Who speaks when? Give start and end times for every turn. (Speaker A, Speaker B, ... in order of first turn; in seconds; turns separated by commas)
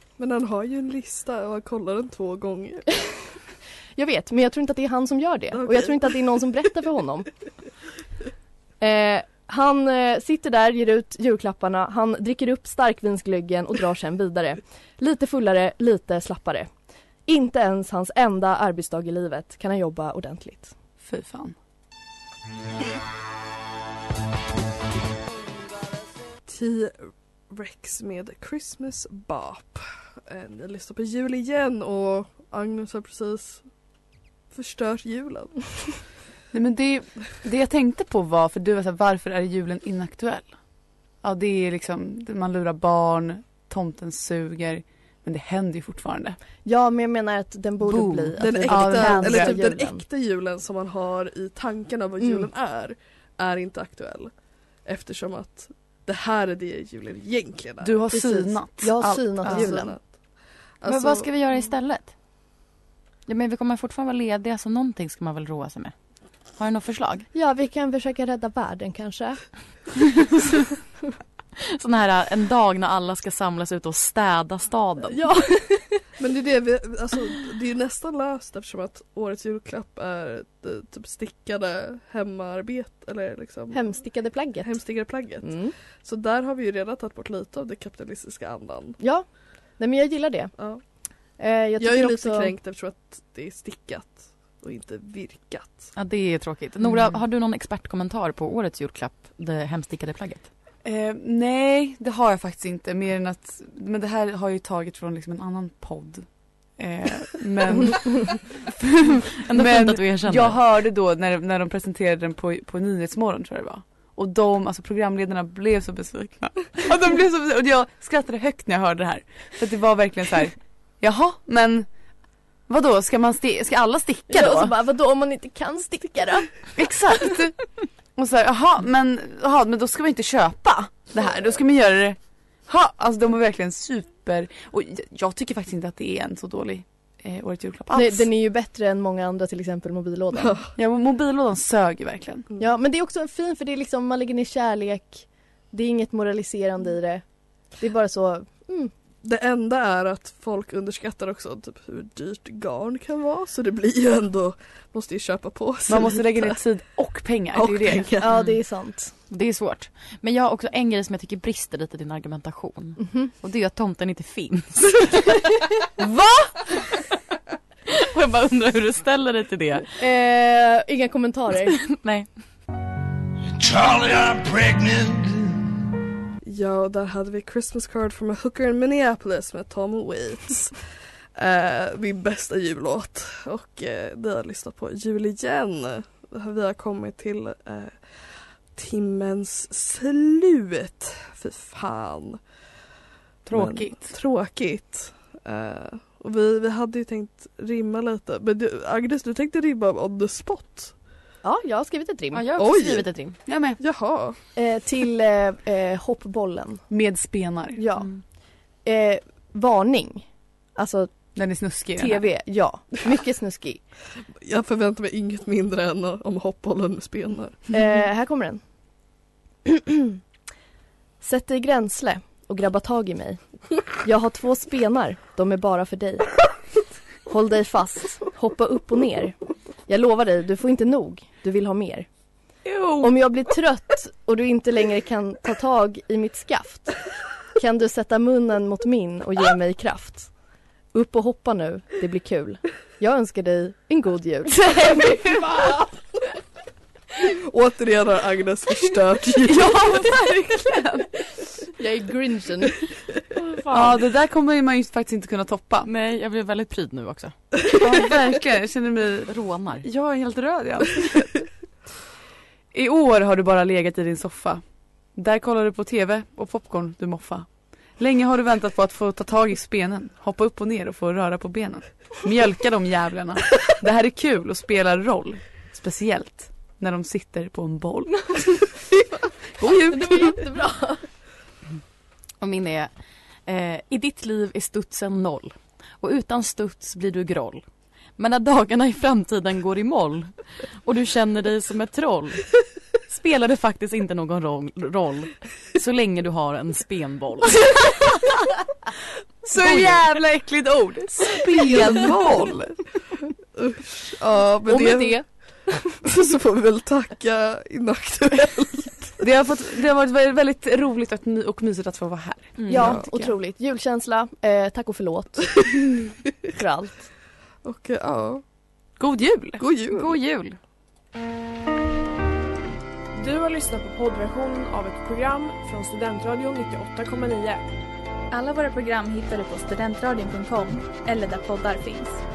Speaker A: 0.2-3.0, Speaker B: 4.0-7.3, Speaker A: 5.5-6.4, Speaker B: 8.8-16.7, Speaker B: 17.3-20.7, Speaker C: 21.0-21.6, Speaker A: 26.5-33.6, Speaker A: 34.5-35.9, Speaker C: 36.5-40.5, Speaker C: 41.2-46.4, Speaker B: 46.6-50.0, Speaker D: 47.9-48.4, Speaker A: 48.4-54.3, Speaker C: 48.7-49.5, Speaker B: 52.2-52.5, Speaker A: 54.9-58.0, Speaker C: 57.8-59.8, Speaker B: 58.1-60.0, Speaker A: 59.4-60.0, Speaker A: 60.8-61.3, Speaker D: 60.9-62.1, Speaker D: 63.3-65.9, Speaker D: 66.6-67.3, Speaker B: 67.3-69.5, Speaker D: 71.7-75.2, Speaker B: 75.1-76.0, Speaker A: 76.2-84.0, Speaker B: 83.7-85.8, Speaker A: 84.6-89.0, Speaker B: 89.0-89.3, Speaker B: 89.8-90.6, Speaker B: 91.4-92.5, Speaker A: 91.8-95.9, Speaker D: 96.0-100.5, Speaker C: 100.8-121.9, Speaker D: 109.4-110.6, Speaker C: 122.7-124.8, Speaker B: 124.3-126.5, Speaker C: 126.8-127.6, Speaker C: 128.2-138.3, Speaker B: 137.9-140.6, Speaker C: 140.8-142.5, Speaker B: 142.6-147.2, Speaker B: 147.8-148.9, Speaker A: 149.2-156.7, Speaker C: 155.9-158.1, Speaker A: 157.5-158.3, Speaker B: 158.2-159.1, Speaker D: 158.3-158.6, Speaker D: 159.3-165.5, Speaker B: 163.0-163.3, Speaker B: 166.0-166.5, Speaker D: 167.9-169.9, Speaker B: 170.0-171.8, Speaker D: 171.8-172.3, Speaker E: 173.6-175.7, Speaker A: 176.4-180.8, Speaker A: 181.3-192.4, Speaker C: 193.5-194.1, Speaker A: 193.5-200.9, Speaker B: 201.4-202.6, Speaker D: 202.3-203.3, Speaker A: 202.6-203.1, Speaker C: 203.5-203.8, Speaker A: 203.8-204.4, Speaker B: 204.6-206.8, Speaker C: 206.9-207.8, Speaker B: 207.8-208.3, Speaker B: 208.8-211.2, Speaker C: 211.4-212.3, Speaker B: 211.9-213.8, Speaker A: 214.4-217.6, Speaker B: 217.7-218.6, Speaker B: 219.7-220.2, Speaker B: 221.2-223.4, Speaker B: 223.9-226.5, Speaker B: 227.3-229.3, Speaker B: 229.9-232.1, Speaker C: 232.7-233.2, Speaker B: 233.0-237.0, Speaker B: 237.6-240.3, Speaker B: 240.9-245.7, Speaker C: 244.6-245.9, Speaker A: 247.3-249.8, Speaker C: 249.4-251.3, Speaker B: 251.8-252.8, Speaker C: 253.7-255.9, Speaker D: 255.8-257.4, Speaker C: 257.7-259.3, Speaker D: 259.3-259.9, Speaker C: 259.8-261.4, Speaker C: 262.7-264.6, Speaker C: 265.1-279.0, Speaker C: 279.6-280.5, Speaker B: 279.6-281.0, Speaker D: 282.4-282.9, Speaker D: 283.5-287.6, Speaker D: 288.2-292.5, Speaker D: 293.1-297.8, Speaker C: 297.6-298.5, Speaker C: 299.4-302.8, Speaker D: 299.6-299.9, Speaker A: 301.4-302.6, Speaker A: 303.6-305.2, Speaker B: 304.7-305.2, Speaker A: 306.0-309.1, Speaker C: 309.2-313.3, Speaker D: 312.6-312.9, Speaker B: 312.7-315.9, Speaker B: 316.5-317.1, Speaker A: 317.6-318.4, Speaker C: 319.0-319.6, Speaker A: 319.6-320.2, Speaker D: 319.9-320.6, Speaker F: 323.1-327.6, Speaker G: 328.3-332.2